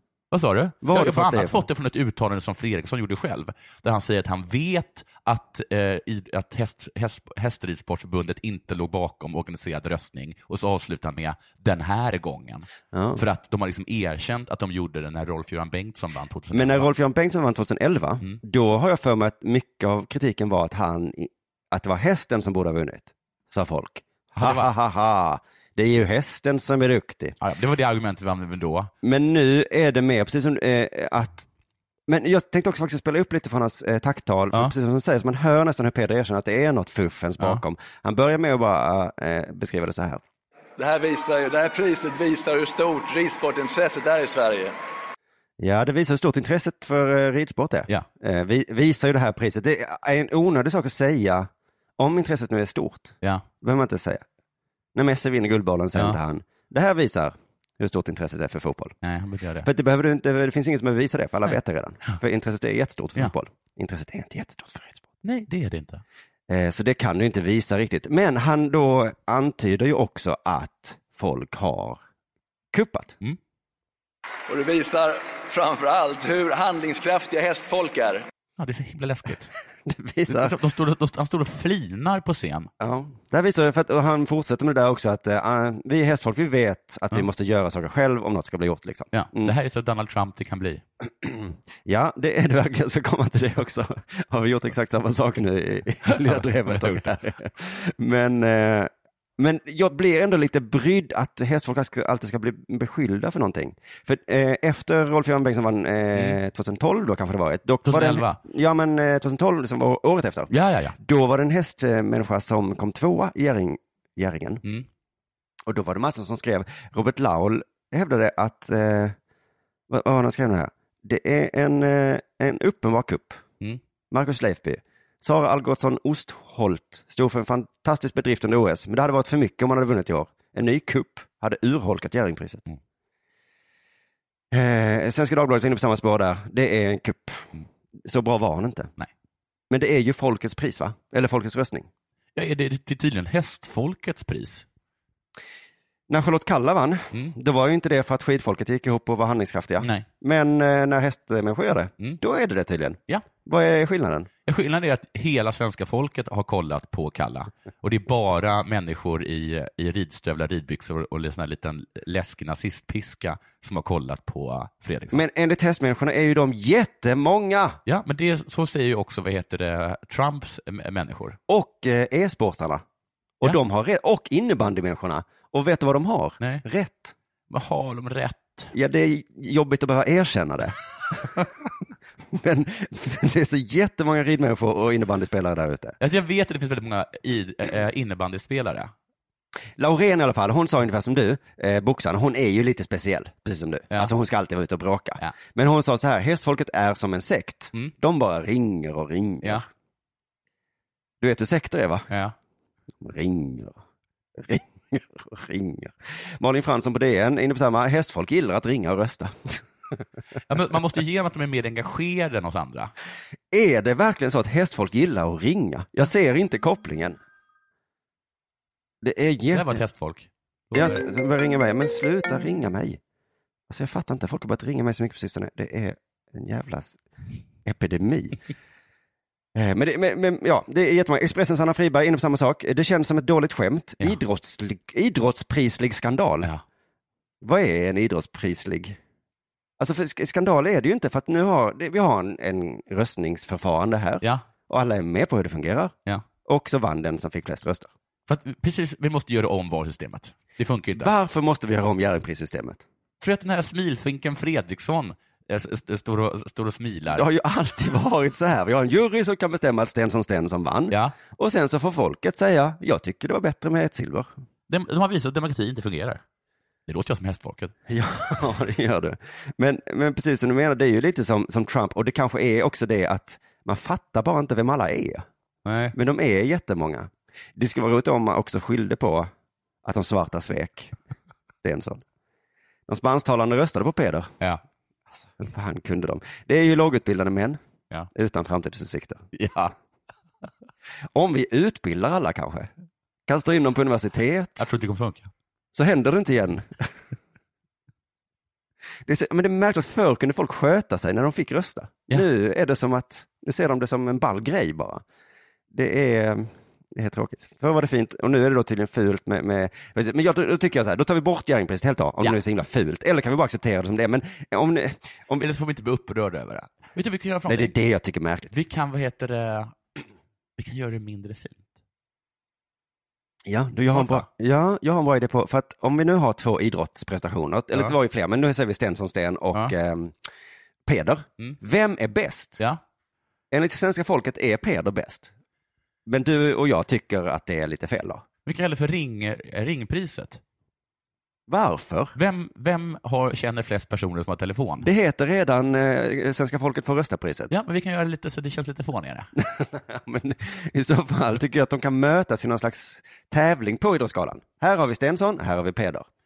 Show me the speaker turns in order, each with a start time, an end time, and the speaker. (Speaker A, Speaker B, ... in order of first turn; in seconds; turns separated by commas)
Speaker A: 0.3-16.9, Speaker B: 0.8-1.7, Speaker B: 12.9-13.2, Speaker B: 16.5-27.4, Speaker A: 24.4-24.7, Speaker A: 27.4-28.9, Speaker B: 29.0-31.5, Speaker B: 32.1-40.2, Speaker C: 40.8-44.7, Speaker B: 45.6-54.2, Speaker B: 55.0-58.9, Speaker A: 59.0-59.7, Speaker B: 59.6-65.1, Speaker A: 61.5-62.2, Speaker A: 65.2-66.0, Speaker B: 66.5-72.0, Speaker B: 72.7-73.2, Speaker C: 74.5-78.2, Speaker A: 78.6-79.5, Speaker B: 79.9-80.6, Speaker A: 80.3-82.7, Speaker B: 82.8-89.5, Speaker A: 89.1-90.8, Speaker B: 91.2-114.6, Speaker A: 96.1-97.2, Speaker A: 107.8-108.4, Speaker A: 110.5-111.0, Speaker B: 115.7-119.2, Speaker B: 119.9-123.4, Speaker B: 124.1-132.7, Speaker B: 134.5-138.9, Speaker B: 139.7-141.9, Speaker A: 142.4-144.7, Speaker B: 146.1-154.3, Speaker A: 149.8-150.1, Speaker A: 154.5-165.2, Speaker B: 165.1-167.8, Speaker A: 167.9-171.4, Speaker B: 171.5-172.8, Speaker B: 173.4-177.1, Speaker A: 177.5-178.7, Speaker B: 178.7-181.3, Speaker B: 182.3-186.0, Speaker A: 186.0-188.9, Speaker B: 189.8-199.6, Speaker B: 201.2-202.1, Speaker A: 202.1-202.3, Speaker B: 203.0-203.8, Speaker B: 204.4-209.6, Speaker A: 210.5-212.9, Speaker B: 213.5-217.2, Speaker B: 219.0-219.8, Speaker A: 219.5-221.0, Speaker B: 220.7-223.0, Speaker B: 223.7-227.0, Speaker B: 227.7-228.4, Speaker B: 229.6-236.5, Speaker B: 237.4-239.0, Speaker B: 239.8-247.9, Speaker A: 248.3-251.1, Speaker B: 250.9-252.8, Speaker A: 253.2-257.2, Speaker B: 257.1-264.3, Speaker A: 260.9-261.2, Speaker A: 264.7-266.2, Speaker A: 266.9-267.7, Speaker B: 267.9-275.2, Speaker A: 275.6-275.9, Speaker B: 275.9-279.3, Speaker B: 279.8-280.9, Speaker B: 281.6-282.0, Speaker B: 282.9-284.3, Speaker B: 285.1-287.6, Speaker B: 288.1-289.2, Speaker A: 289.3-289.7, Speaker B: 291.1-292.7, Speaker B: 293.3-294.7, Speaker A: 294.6-295.3, Speaker B: 295.7-296.9, Speaker B: 299.1-305.0, Speaker B: 305.7-315.5, Speaker A: 315.4-317.7, Speaker B: 317.5-318.5, Speaker A: 318.5-319.8, Speaker A: 320.6-321.6, Speaker B: 323.5-330.2, Speaker A: 323.9-324.3, Speaker B: 330.9-332.6, Speaker B: 333.5-335.3, Speaker B: 336.1-338.2, Speaker A: 338.5-340.4, Speaker B: 341.5-342.1, Speaker A: 342.1-344.9, Speaker B: 344.8-347.5, Speaker A: 347.5-349.3, Speaker B: 349.4-356.1